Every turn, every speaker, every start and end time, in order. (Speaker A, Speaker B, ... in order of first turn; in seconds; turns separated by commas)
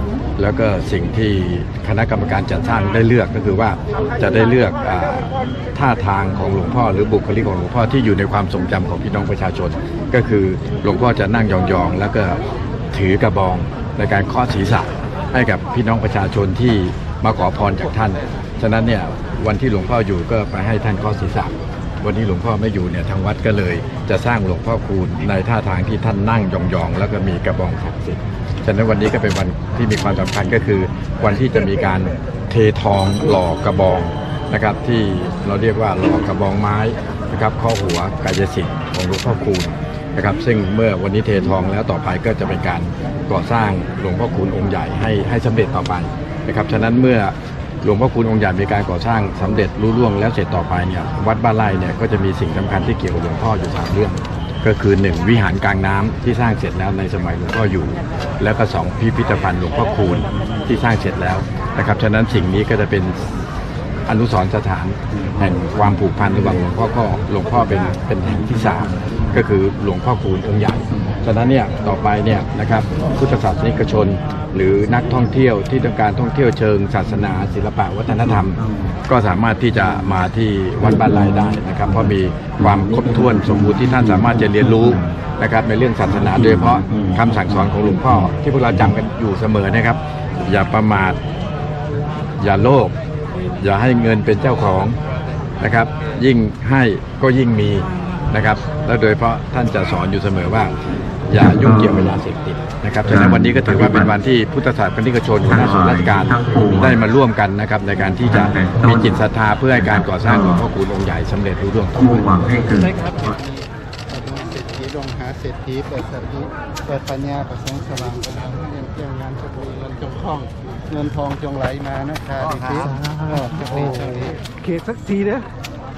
Speaker A: 0.4-63.4, Speaker A: 64.1-91.2, Speaker B: 65.1-66.6, Speaker B: 68.2-69.4, Speaker B: 70.9-71.2, Speaker B: 78.1-79.0, Speaker B: 79.8-80.2, Speaker B: 80.8-85.2, Speaker B: 86.0-89.0, Speaker A: 92.4-92.9, Speaker A: 93.6-95.0, Speaker A: 95.6-100.7, Speaker A: 101.3-112.3, Speaker B: 101.3-102.1, Speaker B: 103.1-104.1, Speaker B: 105.5-107.0, Speaker B: 108.3-109.2, Speaker B: 109.7-110.7, Speaker B: 112.0-113.2, Speaker C: 112.8-124.5, Speaker D: 122.4-125.5